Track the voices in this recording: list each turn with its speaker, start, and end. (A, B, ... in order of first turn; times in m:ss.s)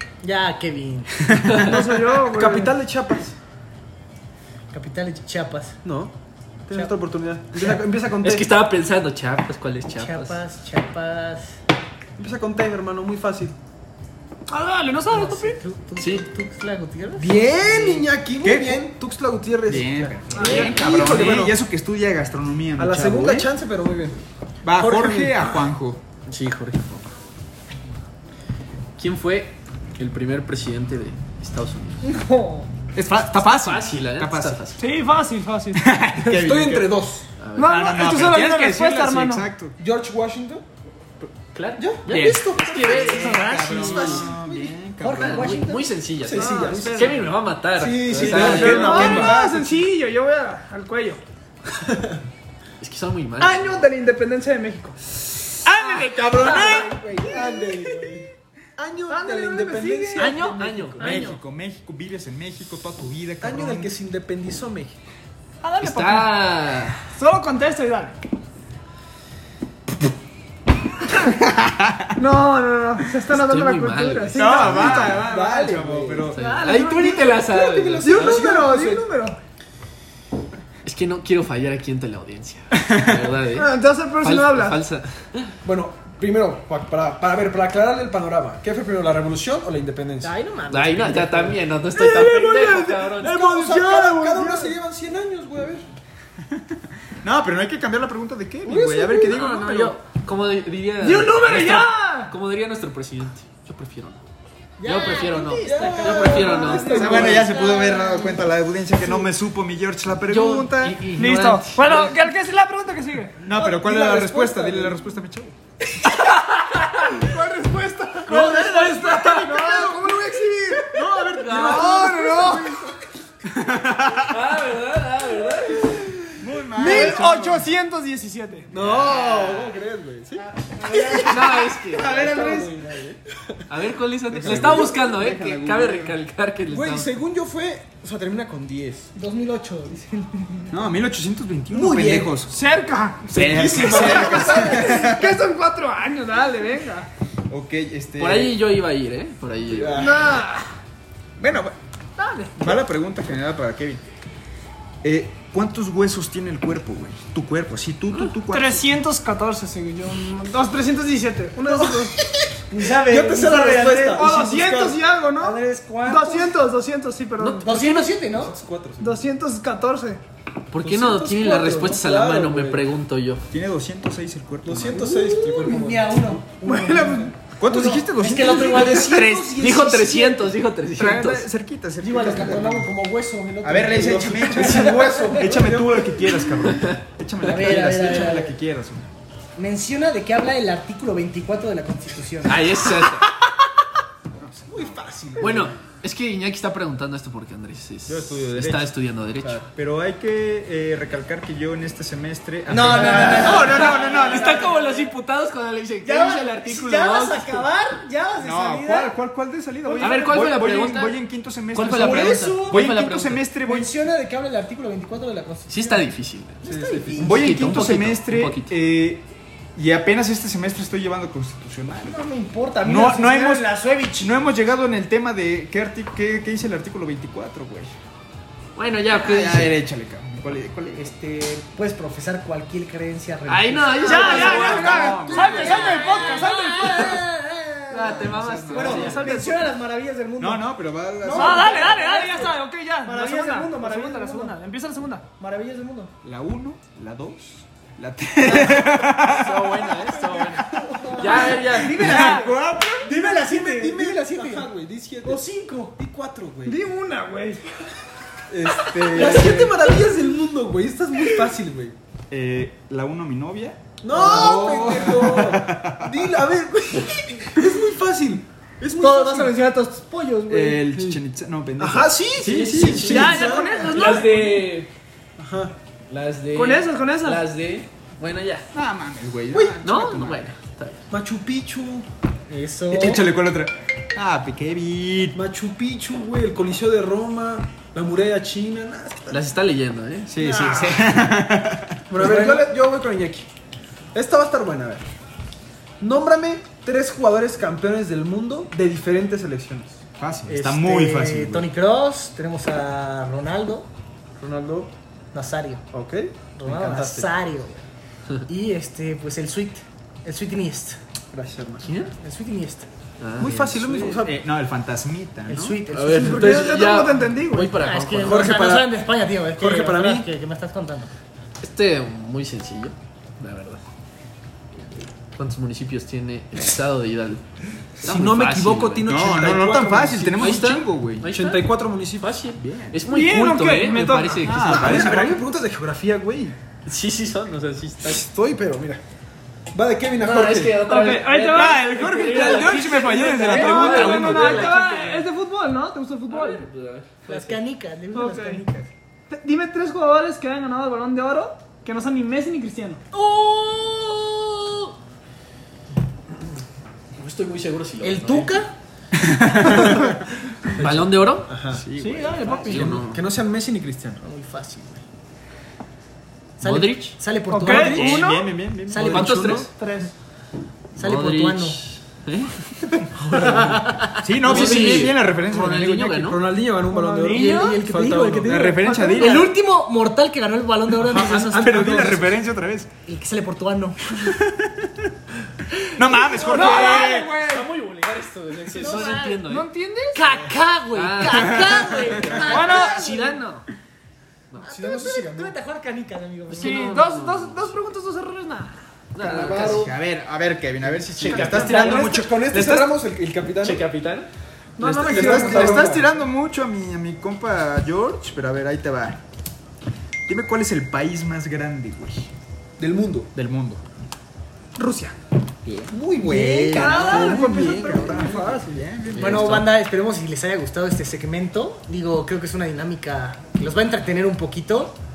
0:00.2-0:01.1 A
0:01.3-0:01.6 B
0:01.5-0:01.8 C
0:01.6-0:02.8 D
0:02.2-0:03.3 E
0:04.7-0:05.8 A
0:05.8-0:06.1 E
0:06.6-0:08.5 E
0:08.2-0:10.4 C
0:09.9-0:11.6 A
0:12.2-0:13.6 E
0:14.5-0:15.6 D
0:15.1-0:18.0 A
0:17.2-0:21.6 E
0:18.4-0:18.8 B
0:19.7-0:23.5 B
0:19.8-0:20.7 A
0:20.4-0:20.8 D
0:20.4-0:21.3 C
0:22.8-0:24.2 E
0:24.6-0:26.0 B
0:24.8-0:25.3 A
0:26.3-0:27.1 C
0:29.0-0:32.0 C
0:32.0-0:32.7 D
0:32.9-0:34.6 B
0:33.4-0:34.8 C
0:34.8-0:35.9 D
0:35.7-0:36.9 B
0:36.2-0:37.3 E
0:37.4-0:37.8 C
0:37.6-0:39.5 D
0:37.6-0:39.7 B
0:39.8-0:40.6 E
0:41.2-0:44.2 C
0:41.8-0:44.7 E
0:42.1-0:45.6 B
0:42.9-0:44.3 A
0:45.0-0:45.9 A
0:45.1-0:49.2 C
0:46.2-0:49.5 E
0:46.4-0:47.2 D
0:48.1-0:49.8 B
0:48.2-0:51.2 D
0:51.8-0:52.2 E
0:52.8-0:53.8 C
0:53.4-0:55.0 D
0:55.7-0:58.2 D
0:55.7-0:56.9 C
0:55.7-1:01.2 E
0:59.1-1:01.4 D
1:00.2-1:01.3 C
1:01.0-1:03.9 B
1:03.4-1:05.0 E
1:05.6-1:06.5 D
1:05.8-1:07.0 C
1:07.1-1:08.2 D
1:11.3-1:12.1 B
1:12.2-1:15.3 D
1:13.3-1:15.0 C
1:14.3-1:16.4 B
1:14.7-1:19.0 E
1:16.4-1:17.3 D
1:16.4-1:18.3 C
1:18.0-1:19.4 D
1:20.8-1:25.5 C
1:22.7-1:23.3 B
1:23.5-1:24.8 D
1:25.6-1:30.3 E
1:30.2-1:31.6 A
1:30.7-1:33.5 C
1:31.9-1:34.7 D
1:33.2-1:35.9 E
1:34.0-1:34.7 A
1:37.2-1:40.0 B
1:38.6-1:39.4 E
1:39.3-1:44.2 C
1:41.0-1:42.3 D
1:44.8-1:48.5 A
1:44.8-1:47.3 C
1:45.6-1:47.5 E
1:46.3-1:47.3 D
1:46.9-1:51.0 B
1:50.3-1:52.1 C
1:51.2-1:53.4 D
1:53.4-1:55.0 E
1:53.4-1:55.6 B
1:56.1-1:57.2 C
1:57.2-2:02.9 D
1:58.3-2:03.0 E
2:01.0-2:02.2 C
2:03.4-2:04.4 B
2:04.2-2:06.0 C
2:06.4-2:07.7 B
2:06.8-2:08.7 D
2:06.8-2:07.2 E
2:08.7-2:13.0 E
2:08.7-2:09.7 B
2:08.8-2:09.7 C
2:10.8-2:13.2 C
2:11.9-2:12.7 B
2:12.3-2:12.8 A
2:13.7-2:17.1 C
2:14.3-2:14.9 E
2:14.3-2:16.2 B
2:16.7-2:19.1 E
2:19.2-2:20.7 A
2:20.7-2:22.6 B
2:21.7-2:22.4 E
2:22.4-2:27.1 D
2:23.3-2:25.3 B
2:23.4-2:24.9 E
2:27.5-2:28.6 B
2:28.2-2:30.0 C
2:29.7-2:30.4 E
2:29.9-2:30.7 D
2:31.4-2:31.8 B
2:32.2-2:32.5 D
2:32.6-2:34.0 B
2:35.0-2:38.8 B
2:38.5-2:42.2 D
2:42.7-2:44.2 A
2:42.9-2:45.0 E
2:44.0-2:47.8 D
2:45.4-2:46.6 A
2:47.4-2:48.1 C
2:47.6-2:48.6 A
2:48.3-2:49.2 E
2:49.0-2:50.2 D
2:50.7-2:53.4 C
2:50.8-2:52.8 E
2:53.5-2:55.1 B
2:54.6-2:56.4 E
2:54.9-2:59.5 A
2:56.6-2:57.3 D
2:57.6-2:59.2 B
2:58.2-3:00.6 E
2:59.2-3:01.5 C
3:00.9-3:02.9 B
3:02.0-3:05.5 A
3:02.3-3:02.8 E
3:03.6-3:09.0 B
3:03.9-3:06.2 E
3:07.4-3:08.5 A
3:09.6-3:12.8 A
3:12.4-3:13.3 C
3:14.5-3:14.9 B
3:14.7-3:15.7 E
3:15.4-3:19.6 C
3:18.1-3:24.8 B
3:22.7-3:24.4 A
3:23.3-3:27.7 C
3:24.2-3:24.7 E
3:26.0-3:29.1 A
3:28.4-3:33.9 B
3:29.8-3:30.2 A
3:30.0-3:31.2 C
3:31.7-3:33.5 C
3:31.9-3:32.9 A
3:33.6-3:36.0 A
3:35.7-3:38.7 C
3:36.6-3:37.6 A
3:36.6-3:37.3 E
3:37.2-3:42.2 B
3:42.0-3:44.4 A
3:42.8-3:48.0 B
3:48.8-3:49.8 C
3:49.1-3:51.1 B
3:51.0-4:00.7 A
3:53.5-3:56.1 C
3:54.0-3:57.3 D
3:54.4-3:55.9 B
3:57.9-3:59.3 C
3:57.9-3:59.2 B
3:58.7-3:59.7 D
4:00.4-4:02.0 B
4:01.2-4:04.6 A
4:01.3-4:05.2 D
4:05.4-4:06.1 A
4:06.2-4:10.1 B
4:08.8-4:12.1 C
4:10.6-4:16.0 A
4:11.0-4:11.4 E
4:11.2-4:12.5 D
4:11.8-4:13.1 B
4:13.1-4:16.8 E
4:16.6-4:17.7 D
4:18.5-4:22.0 E
4:18.9-4:19.7 D
4:19.1-4:19.9 A
4:22.3-4:26.3 B
4:24.0-4:29.6 E
4:24.1-4:25.0 A
4:29.0-4:30.8 A
4:30.5-4:33.6 B
4:30.9-4:31.2 E
4:31.8-4:34.2 E
4:32.8-4:33.2 C
4:33.0-4:34.7 D
4:33.8-4:34.9 C
4:35.4-4:35.7 E
4:36.1-4:38.6 C
4:36.5-4:37.4 D
4:38.7-4:40.5 B
4:39.5-4:39.8 E
4:39.8-4:41.0 C
4:41.1-4:42.1 E
4:42.5-4:43.3 A
4:42.9-4:45.4 B
4:45.3-4:49.4 E
4:49.3-4:50.3 C
4:50.3-4:52.0 B
4:50.4-4:51.1 A
4:52.1-4:53.5 E
4:52.2-4:52.7 A
4:54.1-4:55.0 E
4:56.0-5:00.0 E
5:00.2-5:01.7 B
5:00.5-5:03.9 A
5:04.4-5:04.9 E
5:05.3-5:05.8 A
5:05.9-5:07.2 E
5:06.6-5:07.8 A
5:08.4-5:11.0 A
5:11.3-5:11.9 E
5:11.8-5:12.1 C
5:12.2-5:12.9 A
5:13.2-5:14.0 C
5:13.4-5:14.3 E
5:14.0-5:15.8 B
5:15.5-5:16.7 A
5:15.9-5:18.6 C
5:16.1-5:17.7 D
5:17.8-5:21.1 A
5:18.2-5:19.0 E
5:19.6-5:20.3 E
5:21.6-5:23.8 C
5:25.4-5:27.4 C
5:28.0-5:29.1 C
5:28.0-5:30.6 E
5:29.0-5:31.3 B
5:30.4-5:35.1 C
5:31.2-5:32.4 E
5:32.6-5:33.0 B
5:33.0-5:34.6 D
5:34.4-5:35.4 B
5:34.6-5:36.6 E
5:36.8-5:38.2 C
5:38.0-5:39.0 E
5:39.7-5:40.8 E
5:40.2-5:45.3 C
5:40.8-5:46.6 D
5:41.5-5:45.1 E
5:46.3-5:47.6 C
5:47.2-5:48.9 A
5:48.1-5:48.6 D
5:49.3-5:53.0 D
5:53.1-5:54.9 A
5:57.1-5:58.6 C
5:58.0-5:58.7 A
5:59.2-6:00.1 B
6:00.7-6:01.5 C
6:01.5-6:01.9 E
6:01.7-6:02.6 B
6:02.0-6:03.0 D
6:02.4-6:03.2 C
6:02.6-6:04.2 E
6:04.2-6:05.0 A
6:06.6-6:08.2 A
6:06.6-6:07.2 C
6:07.5-6:08.5 D
6:07.6-6:08.2 E
6:07.7-6:09.5 B
6:08.9-6:09.6 A
6:09.0-6:09.7 C
6:09.1-6:09.7 E
6:09.6-6:10.1 D
6:11.0-6:11.8 A
6:11.0-6:12.5 C
6:13.2-6:13.9 E
6:13.2-6:14.2 A
6:14.2-6:16.3 B
6:14.4-6:16.5 C
6:14.4-6:15.1 E
6:16.2-6:18.9 E
6:16.9-6:17.8 D
6:17.2-6:22.2 A
6:18.4-6:19.5 B
6:20.9-6:22.3 E
6:21.5-6:22.9 B
6:23.0-6:24.0 A
6:24.2-6:25.1 B
6:25.9-6:27.4 B
6:26.1-6:26.9 A
6:26.4-6:27.7 D
6:26.6-6:29.7 C
6:28.8-6:29.5 A
6:29.4-6:30.2 D
6:30.1-6:33.3 A
6:30.9-6:33.6 C
6:31.3-6:32.3 B
6:32.4-6:33.4 D
6:34.6-6:37.0 A
6:34.6-6:35.5 E
6:36.5-6:37.7 C
6:36.5-6:38.8 D
6:39.1-6:39.9 C
6:39.2-6:39.9 E
6:39.4-6:43.0 B
6:40.9-6:42.2 C
6:41.2-6:43.8 E
6:41.4-6:41.8 D
6:43.6-6:44.3 C
6:44.8-6:45.9 D
6:44.8-6:46.1 E
6:45.0-6:49.2 B
6:50.3-6:52.3 B
6:52.8-6:53.3 E
6:53.3-6:53.8 B
6:54.8-6:55.2 D
6:55.6-6:59.6 B
6:55.9-6:58.8 E
6:56.7-6:58.8 D
6:59.1-6:59.7 C
6:59.2-7:05.0 A